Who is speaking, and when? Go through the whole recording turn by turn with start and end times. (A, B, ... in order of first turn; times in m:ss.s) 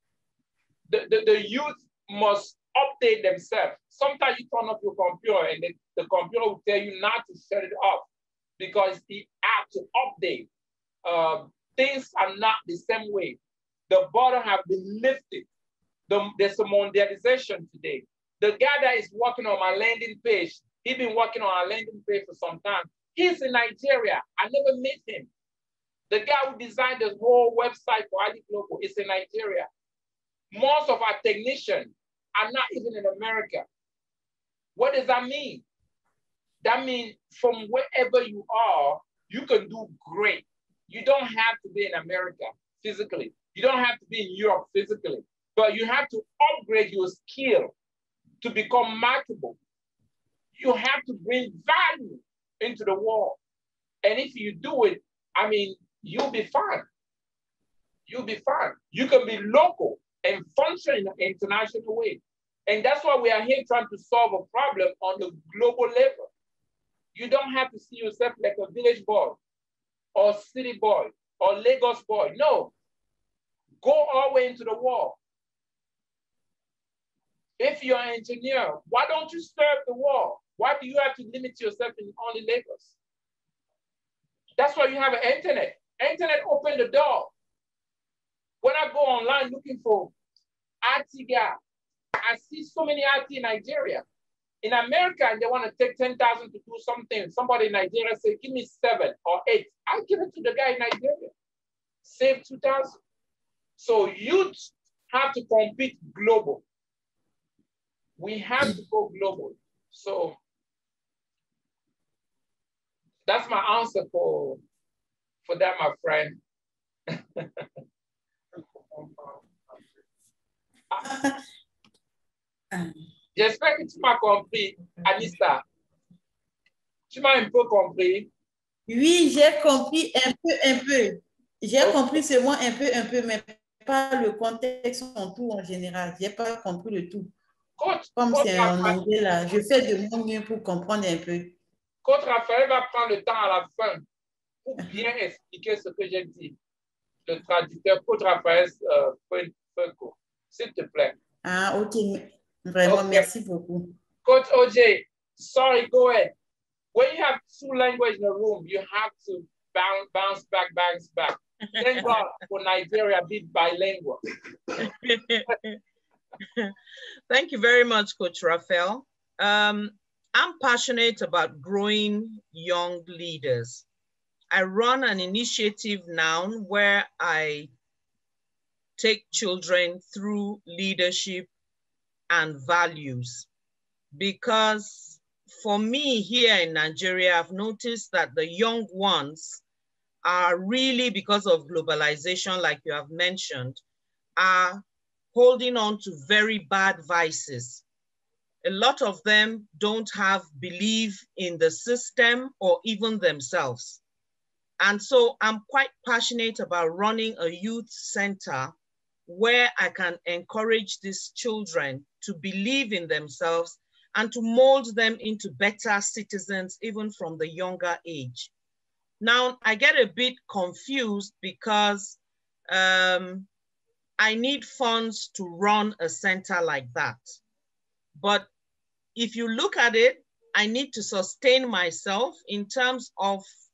0:00.9-0:08.0 A
0:08.6-0:10.5 A
0:11.0-0:15.4 A
0:16.1-0:25.3 A
0:26.1-0:29.7 A
0:30.5-0:33.6 A
0:34.8-0:35.6 A
0:36.6-0:47.7 A
0:48.4-0:49.6 A
0:50.5-0:53.4 A
0:54.0-0:56.8 A
0:58.1-1:06.3 A
1:07.1-1:09.4 A
1:10.1-1:12.7 A
1:13.8-1:15.2 A
1:17.6-1:23.0 A
1:24.6-1:27.3 A
1:28.6-1:30.1 A
1:30.8-1:31.6 A
1:32.2-1:34.0 A
1:34.6-1:41.3 A
1:42.0-1:43.0 A
1:43.8-1:46.6 A
1:48.2-1:50.4 A
1:53.2-1:54.6 A
1:55.4-1:56.4 A
1:57.1-1:57.6 A
1:58.9-1:59.4 A
2:01.0-2:01.4 B
2:03.4-2:05.6 A
2:07.1-2:08.3 A
2:08.9-2:17.3 B
2:11.8-2:12.2 A
2:17.8-2:19.0 A
2:18.2-2:21.6 B
2:22.0-2:24.0 A
2:24.6-2:26.6 A
2:27.3-2:31.1 A
2:31.4-2:33.9 B
2:32.8-2:33.2 A
2:34.2-2:36.3 A
2:36.9-2:44.2 A
2:44.9-2:45.4 C
2:47.3-2:53.8 C
2:54.5-2:57.7 C
2:59.0-3:01.5 C
3:02.3-3:03.5 C
3:04.1-3:09.6 C
3:10.2-3:13.8 C
3:14.4-3:14.8 C
3:15.3-3:17.8 C
3:18.6-3:24.0 C
3:24.8-3:28.7 C
3:29.3-3:38.5 C
3:39.2-3:43.5 C
3:44.2-3:47.3 C
3:48.1-3:48.5 C
3:49.1-3:53.4 C